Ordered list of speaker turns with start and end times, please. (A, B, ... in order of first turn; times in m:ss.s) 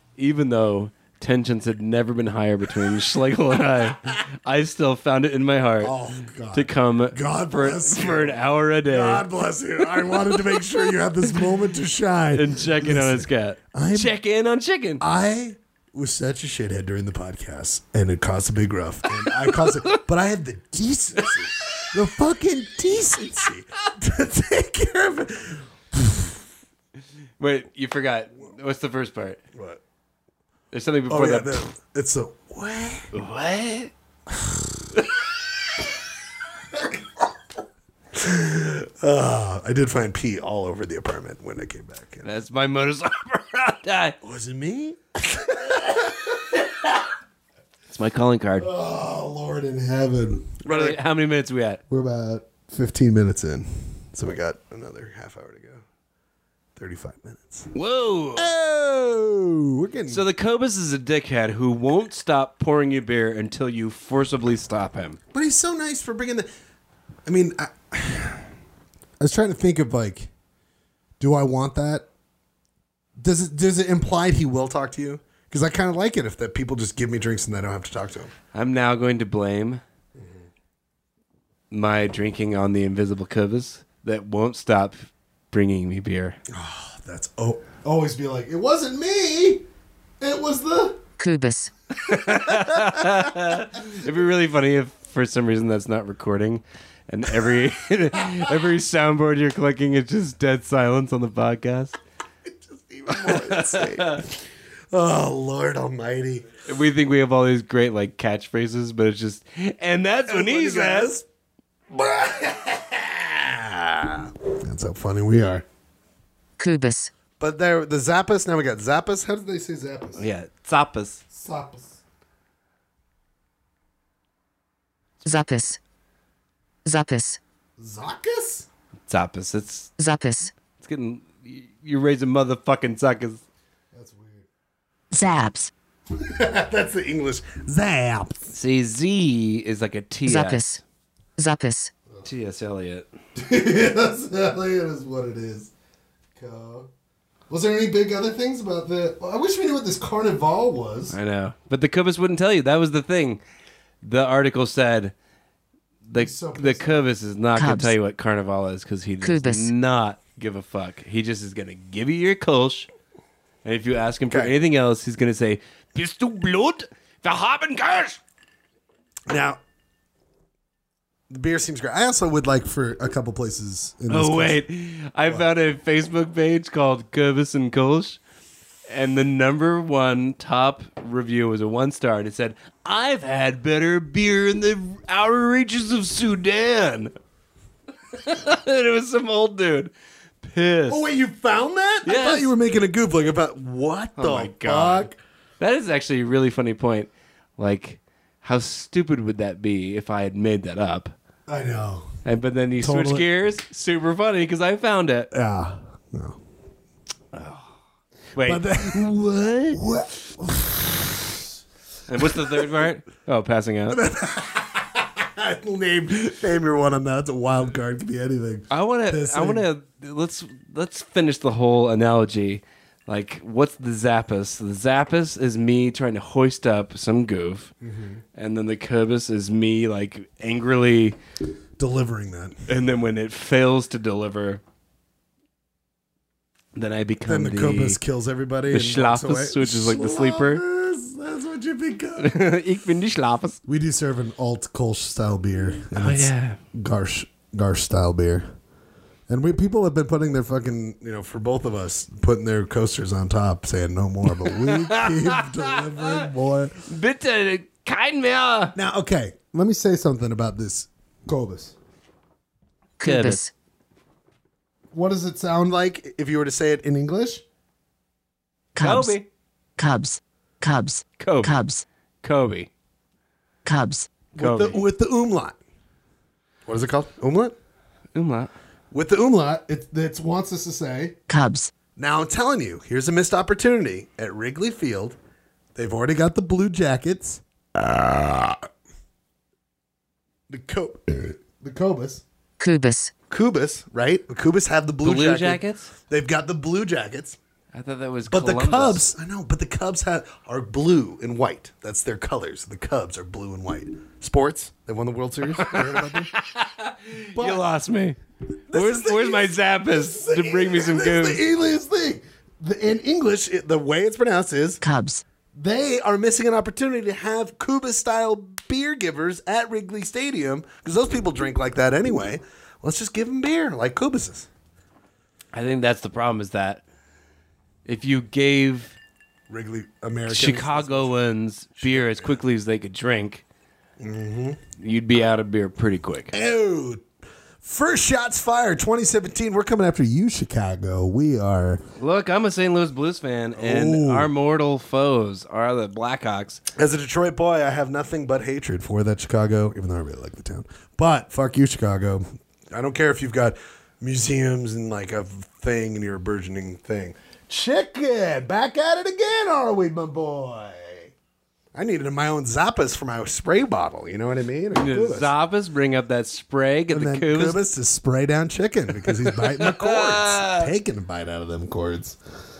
0:00.2-0:05.9 A
0:05.8-0:14.1 B
0:06.5-0:09.2 A
0:10.1-0:10.4 A
0:12.3-0:15.0 A
0:15.0-0:26.4 B
0:21.2-0:21.9 A
0:27.4-0:29.4 A
0:29.5-0:29.8 B
0:30.7-0:31.7 A
0:31.1-0:33.1 B
0:33.1-0:33.9 A
0:34.3-0:34.8 B
0:36.7-0:37.0 B
0:38.1-0:42.3 B
0:42.2-0:44.2 A
0:44.2-0:46.9 B
0:47.9-0:48.7 A
0:48.6-0:51.0 B
0:50.6-0:51.8 A
0:51.9-0:55.8 B
0:56.8-0:57.7 B
0:57.7-0:58.5 A
0:58.4-1:00.2 B
1:00.1-1:05.2 A
1:05.3-1:06.5 B
1:07.2-1:08.5 B
1:09.2-1:10.3 B
1:11.2-1:12.1 B
1:13.2-1:18.3 B
1:18.5-1:19.8 A
1:20.2-1:20.4 B
1:21.7-1:26.4 A
1:26.5-1:29.6 B
1:30.2-1:31.0 B
1:31.2-1:31.7 C
1:32.0-1:41.9 A
1:32.1-1:33.2 B
1:42.5-1:46.5 B
1:43.1-1:44.2 A
1:46.7-1:51.1 A
1:50.3-1:51.2 B
1:51.9-1:55.6 B
1:56.6-1:57.1 C
1:57.4-2:00.2 B
2:00.2-2:01.2 A
2:01.3-2:02.0 B
2:05.2-2:05.8 C
2:06.8-2:07.4 C
2:07.8-2:08.7 B
2:09.1-2:09.9 A
2:10.0-2:10.5 C
2:10.8-2:13.4 A
2:13.9-2:14.4 B
2:15.1-2:15.7 C
2:16.1-2:18.5 B
2:18.5-2:20.6 A
2:20.3-2:20.8 C
2:21.4-2:21.9 C
2:22.2-2:23.1 A
2:23.4-2:25.7 B
2:26.4-2:26.9 B
2:27.5-2:31.2 B
2:31.1-2:33.4 A
2:34.0-2:35.1 A
2:36.0-2:42.9 A
2:36.1-2:37.0 B
2:37.6-2:37.9 C
2:39.2-2:39.7 C
2:43.6-2:48.2 A
2:44.3-2:44.5 B
2:49.3-2:49.6 B
2:51.3-2:54.6 B
2:54.1-2:58.2 A
2:58.9-3:07.1 A
3:08.1-3:11.1 A
3:10.9-3:15.2 B
3:12.0-3:12.5 A
3:14.2-3:21.1 A
3:21.5-3:22.1 B
3:22.2-3:25.3 A
3:22.8-3:23.3 B
3:25.3-3:26.4 B
3:27.3-3:27.7 A
3:28.4-3:29.8 A
3:28.4-3:29.2 B
3:29.7-3:31.5 B
3:32.1-3:34.0 A
3:32.2-3:32.8 B
3:33.9-3:39.7 B
3:38.7-3:47.7 A
3:47.8-3:48.2 B
3:48.3-3:51.2 A
3:51.8-3:52.6 B
3:52.7-3:54.6 A
3:56.7-3:58.0 A
3:57.2-4:02.3 B
3:58.7-4:00.6 A
4:02.2-4:03.6 A
4:03.7-4:08.5 B
4:05.9-4:06.6 A
4:09.3-4:16.8 B
4:14.2-4:16.2 A
4:16.9-4:18.7 A
4:18.7-4:21.8 B
4:23.0-4:23.5 C
4:23.0-4:23.4 A
4:24.9-4:27.4 B
4:28.8-4:29.2 C
4:28.8-4:29.2 A
4:29.8-4:31.8 C
4:31.2-4:31.6 A
4:32.2-4:32.7 A
4:33.6-4:34.1 C
4:34.3-4:35.6 B
4:34.4-4:34.8 A
4:36.6-4:37.5 B
4:38.1-4:38.5 A
4:38.9-4:41.2 B
4:41.3-4:41.7 C
4:42.0-4:45.2 B
4:45.7-4:48.6 B
4:50.5-4:52.2 B
4:52.6-4:53.1 C
4:53.3-4:57.4 B
4:55.0-4:55.9 A
4:57.7-4:59.0 A
4:58.3-5:06.3 B
5:05.6-5:08.2 A
5:07.3-5:07.6 B
5:08.7-5:14.8 B
5:08.7-5:11.4 A
5:14.8-5:15.2 C
5:15.5-5:24.5 B
5:25.5-5:26.8 A
5:27.8-5:29.0 A
5:29.5-5:31.1 B
5:30.3-5:33.4 A
5:31.8-5:32.4 B
5:34.0-5:34.6 B
5:34.8-5:36.3 A
5:36.3-5:37.0 B
5:37.6-5:41.8 B
5:42.0-5:46.6 A
5:43.6-5:44.3 B
5:46.8-6:01.1 B
6:01.7-6:05.3 B
6:04.7-6:07.6 A
6:06.9-6:12.2 B
6:09.3-6:10.7 A